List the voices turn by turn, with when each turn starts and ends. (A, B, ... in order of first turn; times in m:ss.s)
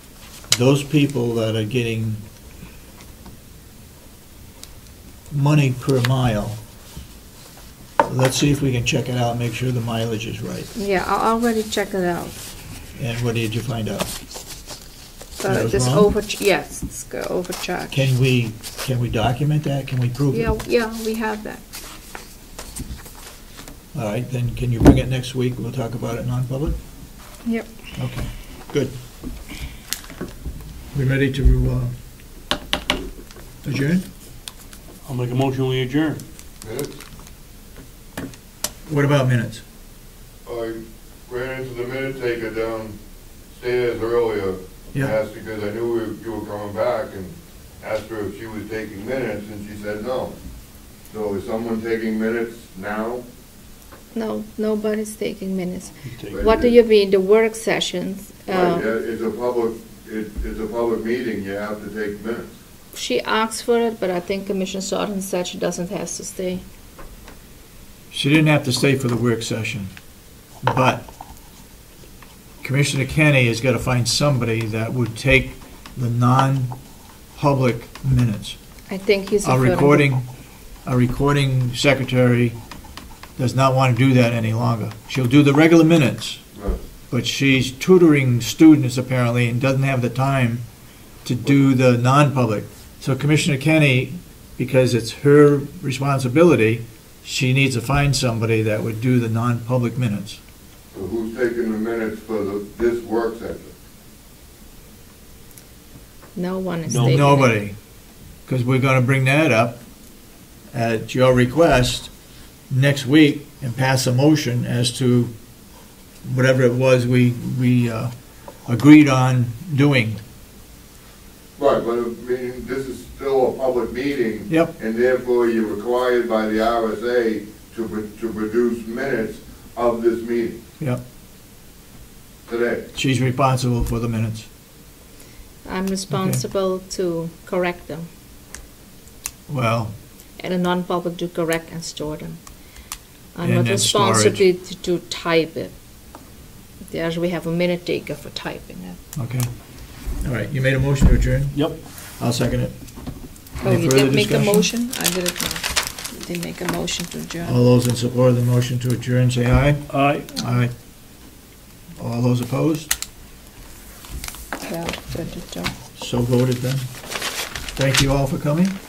0:00.5-0:02.2 A
0:05.3-0:06.6 A
0:08.0-0:10.7 A
0:10.7-0:12.4 B
0:13.0-0:14.1 A
0:15.4-0:18.1 B
0:15.4-0:16.1 A
0:17.9-0:20.5 A
0:20.3-0:21.6 B
0:23.9-0:26.8 A
0:28.0-0:29.0 A
0:30.9-0:31.9 A
0:33.6-0:34.0 A
0:35.0-0:36.2 C
0:36.6-0:37.0 D
0:38.9-0:39.6 A
0:40.5-0:43.0 D
0:43.5-0:50.3 D
0:51.1-0:53.2 D
0:54.1-0:58.9 B
0:56.1-0:56.4 C
0:56.3-0:56.8 D
0:58.5-1:02.5 D
1:02.9-1:06.6 B
1:08.1-1:09.9 A
1:10.6-1:11.1 A
1:12.6-1:16.8 A
1:17.4-1:18.6 A
1:18.9-1:20.1 B
1:19.4-1:20.2 A
1:20.8-1:22.6 A
1:23.4-1:26.4 A
1:27.1-1:30.6 A
1:31.2-1:40.4 A
1:40.9-1:43.7 D
1:46.4-1:47.6 B
1:46.9-1:47.2 C
1:46.9-1:47.8 A
1:48.5-1:49.8 A
1:50.7-1:52.1 A
1:52.7-1:55.3 A
1:56.2-1:58.1 A
1:58.7-2:00.2 A
2:01.6-2:10.6 D
2:12.5-2:12.8 D
2:12.9-2:14.5 A
2:15.6-2:18.1 B
2:16.1-2:16.4 A
2:19.5-2:19.9 A
2:20.4-2:22.4 B
2:23.4-2:25.7 B
2:23.4-2:24.4 A
2:26.9-2:29.0 B
2:29.2-2:29.5 A
2:30.2-2:31.6 A
2:31.5-2:31.8 C
2:32.2-2:32.7 A
2:33.6-2:37.6 B
2:33.6-2:34.7 A
2:37.4-2:40.7 A
2:39.9-2:40.3 C
2:42.0-2:42.9 A
2:44.6-2:45.7 B
2:46.0-2:46.9 A
2:47.8-2:48.8 A